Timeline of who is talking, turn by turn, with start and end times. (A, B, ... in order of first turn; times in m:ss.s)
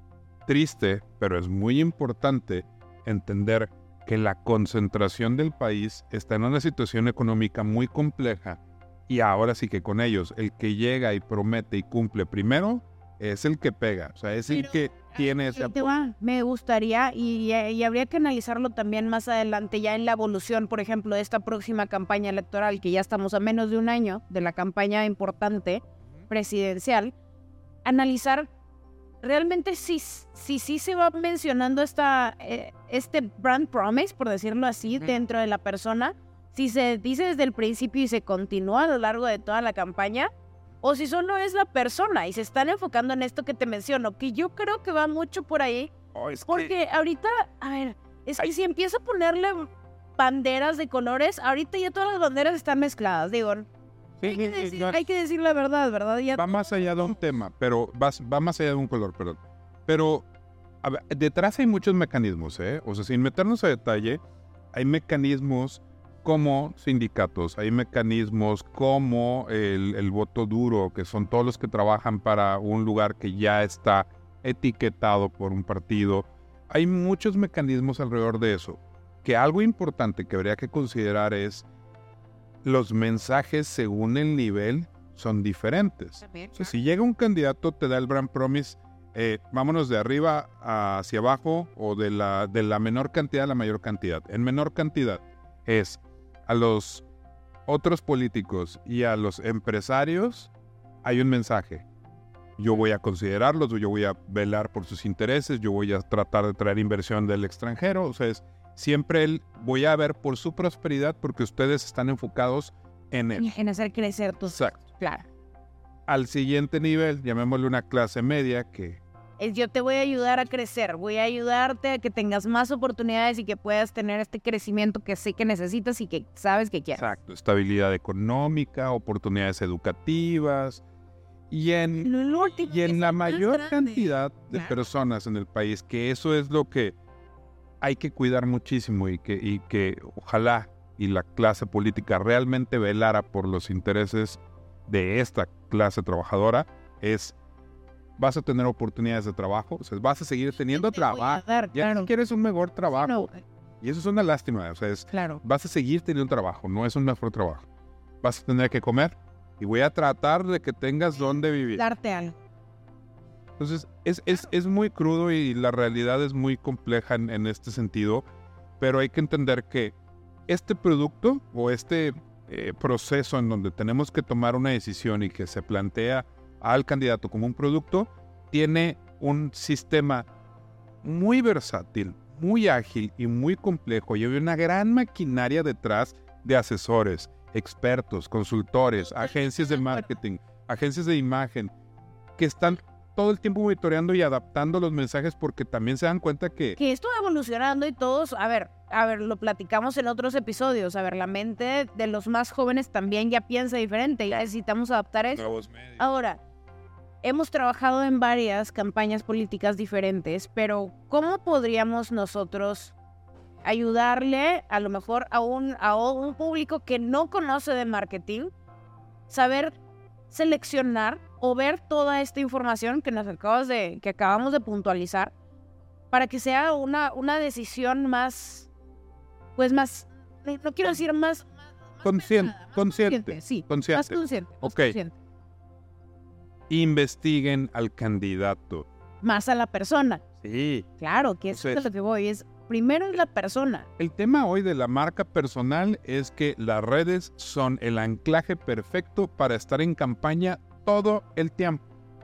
0:00.4-0:16.0 A
0:14.5-0:27.1 B
0:27.8-0:28.5 B
0:29.2-0:40.3 B
0:40.8-0:45.9 B
0:46.1-0:46.7 A
0:46.5-0:53.7 B
0:54.2-0:55.0 A
0:54.2-0:57.1 B
0:56.4-1:00.3 A
1:00.8-1:04.2 A
1:04.7-1:21.6 A
1:22.6-1:37.0 A
1:26.2-1:26.7 B
1:37.7-1:40.5 A
1:41.0-1:41.8 A
1:42.6-1:53.5 A
1:53.4-1:55.2 B
1:54.4-1:54.8 A
1:56.1-1:59.0 A
1:59.4-2:07.1 B
2:06.9-2:10.8 A
2:11.5-2:17.0 A
2:12.0-2:14.7 B
2:17.8-2:27.3 A
2:28.2-2:33.2 A
2:30.7-2:32.1 B
2:33.0-2:33.4 B
2:33.8-2:37.6 A
2:35.1-2:35.4 B
2:38.2-2:41.8 A
2:41.8-2:42.3 B
2:43.6-2:48.2 A
2:48.8-2:50.0 A
2:50.5-3:00.3 A
3:01.0-3:11.7 A
3:09.1-3:10.1 B
3:12.4-3:16.8 A
3:16.8-3:25.4 B
3:25.3-3:26.1 A
3:26.0-3:26.4 B
3:27.2-3:32.9 B
3:33.6-3:38.5 B
3:39.3-3:39.8 B
3:40.3-3:45.3 B
3:46.1-3:48.7 B
3:49.6-3:55.2 B
3:52.0-3:55.0 A
3:56.7-3:58.8 A
3:59.2-4:00.2 B
4:00.4-4:00.9 A
4:01.0-4:03.8 B
4:01.5-4:01.8 A
4:04.0-4:11.8 A